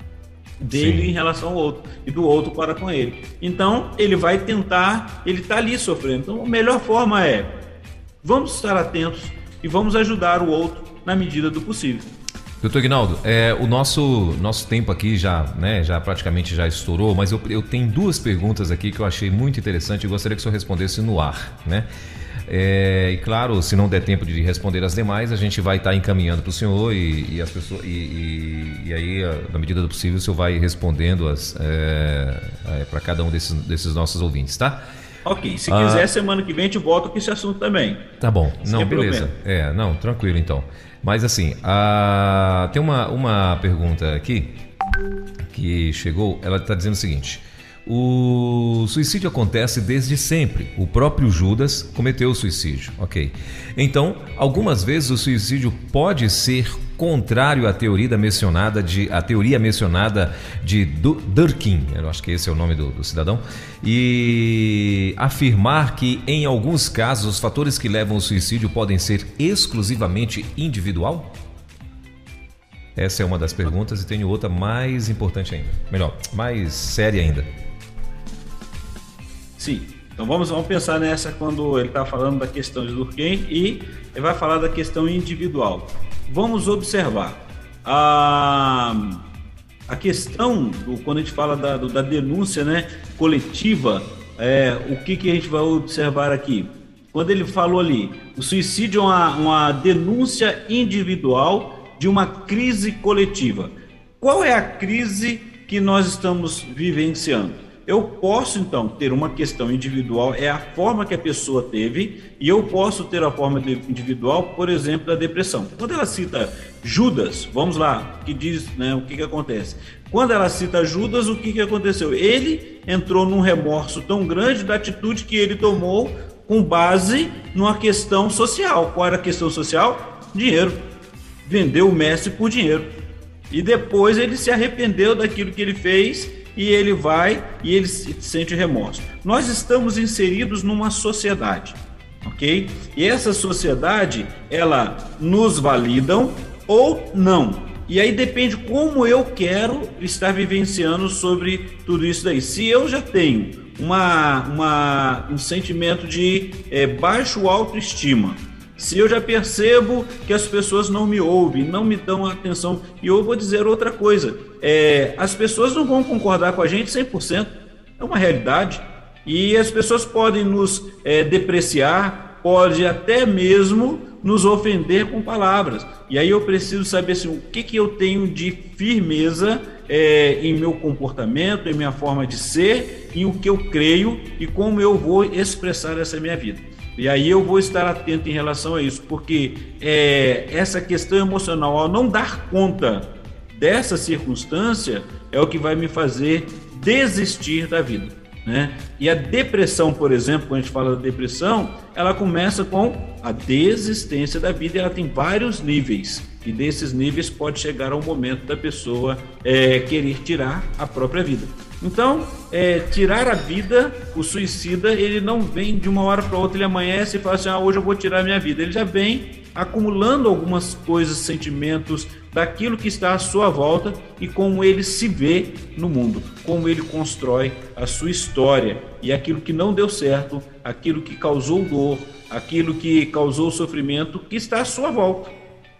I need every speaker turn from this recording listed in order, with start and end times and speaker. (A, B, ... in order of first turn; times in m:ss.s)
0:00.6-0:07.5 A
0:00.7-0:01.1 B
0:08.2-0:12.1 A
0:12.6-0:21.9 B
0:22.5-0:34.8 B
0:35.2-0:38.0 A
0:35.7-0:36.1 B
0:38.2-0:44.6 B
0:38.6-0:39.3 A
0:45.5-1:11.3 B
1:13.0-1:17.4 B
1:19.6-1:29.2 A
1:29.9-2:10.8 A
2:11.4-2:12.9 A
2:13.5-3:55.3 A